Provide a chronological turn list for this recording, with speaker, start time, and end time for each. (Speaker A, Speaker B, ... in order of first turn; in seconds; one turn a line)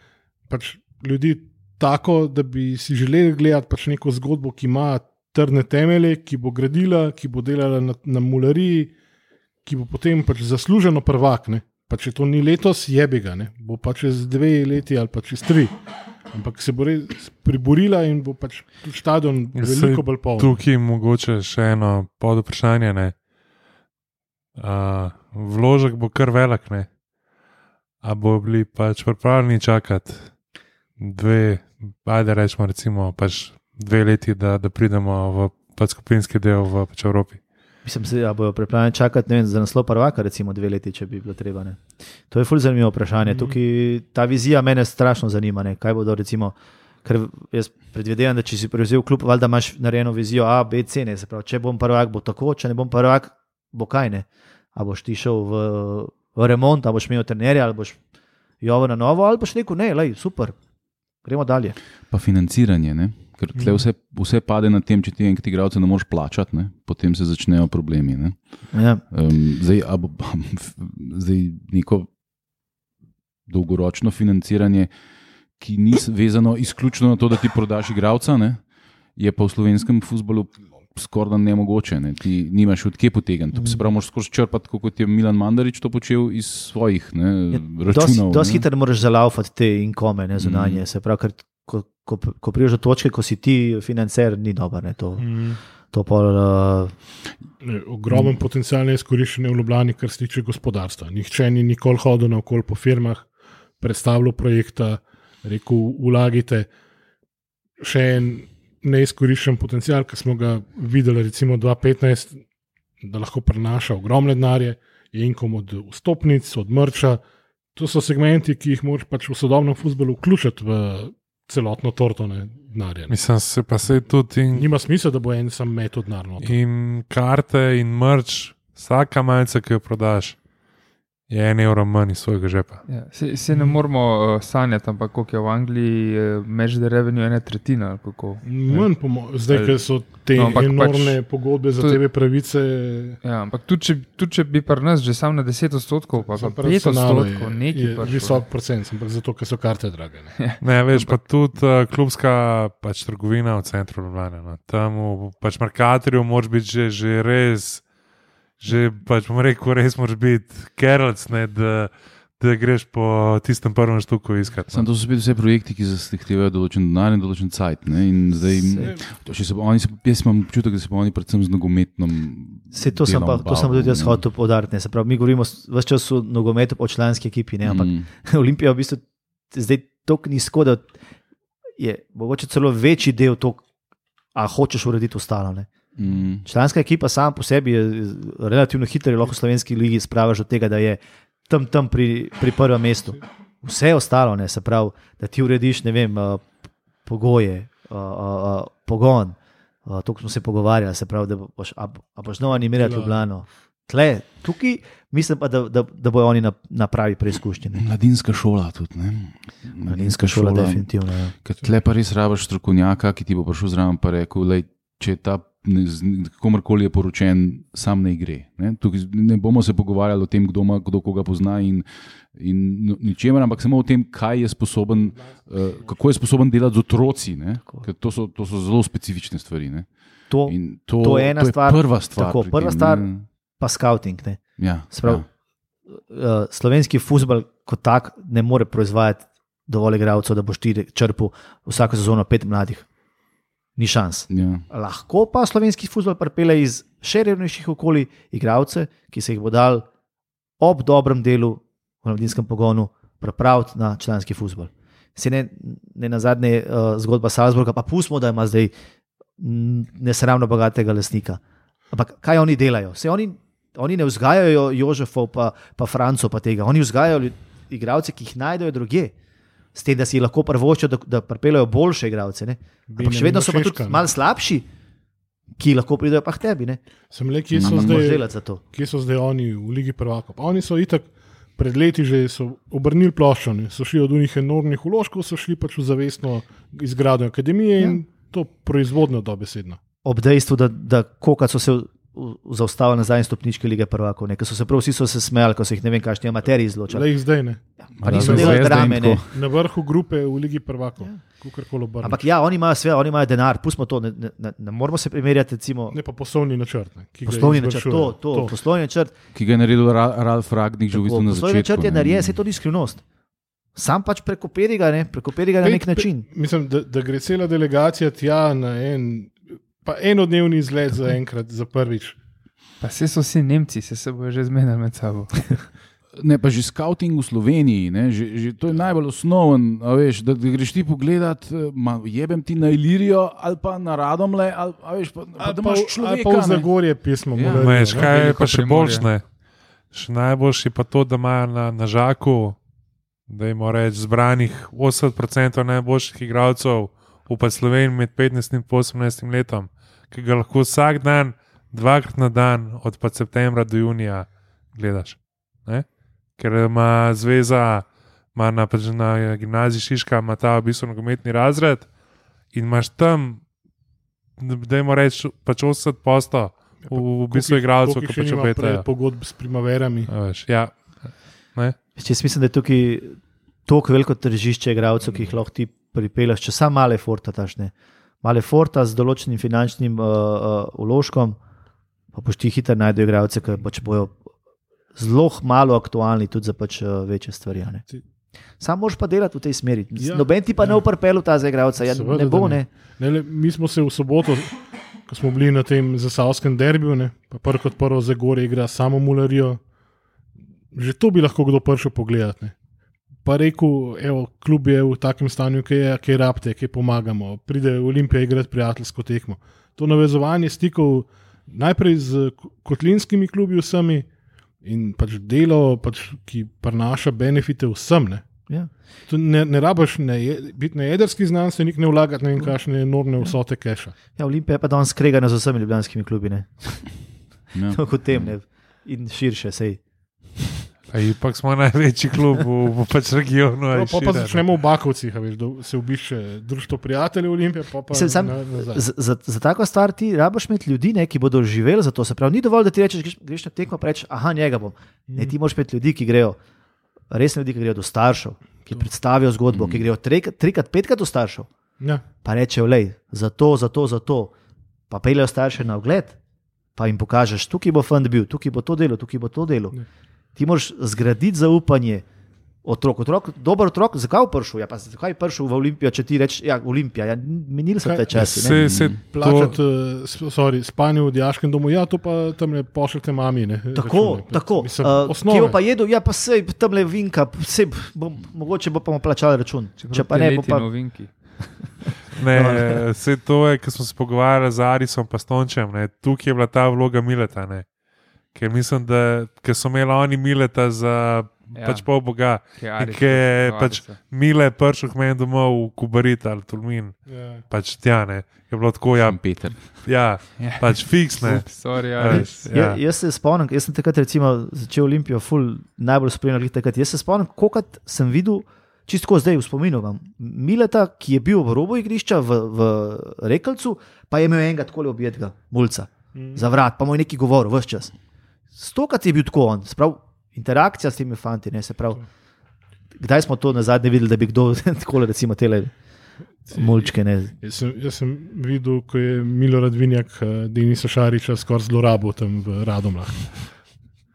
Speaker A: 0.5-8.9
Speaker A: 9.7-15.7
Speaker A: 16.3-20.6
Speaker B: 19.6-23.1
Speaker B: 24.6-26.9
Speaker B: 28.0-30.3
Speaker B: 31.0-37.4
Speaker C: 37.9-58.0
Speaker A: 43.3-43.5
Speaker C: 58.6-60.6
Speaker C: 61.2-61.8
Speaker D: 62.1-72.1
Speaker A: 63.5-63.9
Speaker C: 68.7-69.0
Speaker D: 73.5-74.9
Speaker D: 75.6-78.6
Speaker D: 79.2-88.7
Speaker C: 83.5-83.8
Speaker C: 87.5-95.4
Speaker D: 90.4-90.8
Speaker A: 95.2-95.6
Speaker C: 95.9-96.9
Speaker A: 97.6-103.3
Speaker A: 103.8-106.7
Speaker A: 107.8-112.4
Speaker A: 113.0-117.2
Speaker A: 117.8-123.1
Speaker B: 123.1-124.7
Speaker A: 124.5-126.6
Speaker B: 126.4-130.4
Speaker B: 131.3-132.8
Speaker E: 132.9-142.0
Speaker A: 133.5-133.8
Speaker A: 138.4-143.2
Speaker E: 143.2-148.5
Speaker A: 146.2-150.3
Speaker E: 150.4-151.2
Speaker B: 150.6-157.8
Speaker B: 158.6-164.9
Speaker D: 164.7-174.2
Speaker A: 168.8-169.1
Speaker C: 172.7-180.9
Speaker D: 177.6-178.1
Speaker C: 181.8-183.6
Speaker C: 184.3-185.7
Speaker D: 186.0-186.5
Speaker C: 186.4-196.5
Speaker C: 197.1-207.8
Speaker A: 202.8-203.2
Speaker D: 207.8-229.9
Speaker C: 209.8-211.3
Speaker A: 225.0-225.9
Speaker C: 230.3-233.1
Speaker D: 230.5-233.3
Speaker C: 233.6-235.3
Speaker D: 234.6-235.3
Speaker C: 235.9-242.9
Speaker C: 243.8-249.9
Speaker D: 244.3-244.6
Speaker C: 250.6-258.7
Speaker C: 259.4-261.4
Speaker C: 261.9-269.1
Speaker C: 269.8-274.7
Speaker A: 272.9-274.1
Speaker C: 275.6-276.8
Speaker A: 277.1-289.8
Speaker D: 277.5-278.0
Speaker C: 277.6-278.6
Speaker C: 290.0-297.1
Speaker A: 296.9-302.2
Speaker C: 297.8-299.2
Speaker D: 298.0-299.3
Speaker C: 302.0-306.0
Speaker A: 305.9-308.5
Speaker C: 307.3-309.1
Speaker D: 309.3-312.4
Speaker C: 310.9-313.0
Speaker C: 313.8-316.2
Speaker A: 315.6-322.2
Speaker E: 322.8-325.7
Speaker D: 326.2-336.7
Speaker A: 335.4-338.1
Speaker D: 337.3-337.9
Speaker B: 337.4-339.2
Speaker E: 337.9-339.1
Speaker B: 339.9-342.6
Speaker B: 343.3-355.9
Speaker B: 356.4-361.9
Speaker B: 362.5-363.4
Speaker B: 364.4-368.9
Speaker A: 366.9-370.1
Speaker B: 370.1-371.8
Speaker C: 372.0-377.7
Speaker C: 378.2-381.4
Speaker C: 382.1-384.2
Speaker C: 384.9-387.8
Speaker C: 388.6-392.7
Speaker A: 390.0-390.8
Speaker A: 391.9-394.6
Speaker A: 395.1-399.6
Speaker A: 400.7-402.6
Speaker A: 403.2-414.1
Speaker A: 414.6-418.4
Speaker A: 419.1-423.9
Speaker C: 424.2-426.9
Speaker D: 427.5-428.4
Speaker C: 427.7-429.8
Speaker B: 430.9-434.5
Speaker A: 433.7-438.9
Speaker C: 437.9-446.4
Speaker A: 445.1-445.3
Speaker C: 447.1-451.5
Speaker D: 449.5-449.9
Speaker C: 452.2-454.3
Speaker C: 454.9-456.2
Speaker C: 456.8-459.8
Speaker C: 460.4-462.1
Speaker C: 462.6-468.6
Speaker A: 467.8-468.5
Speaker B: 468.1-469.6
Speaker D: 468.5-469.0
Speaker A: 469.1-475.6
Speaker C: 473.7-480.7
Speaker E: 479.8-481.2
Speaker B: 482.2-487.7
Speaker C: 482.3-482.8
Speaker B: 488.3-502.8
Speaker E: 491.5-494.0
Speaker A: 497.1-497.4
Speaker D: 499.0-499.8
Speaker E: 500.4-502.6
Speaker C: 502.1-517.9
Speaker A: 516.1-516.4
Speaker C: 518.6-522.0
Speaker C: 523.0-525.7
Speaker C: 526.5-527.3
Speaker A: 526.5-533.5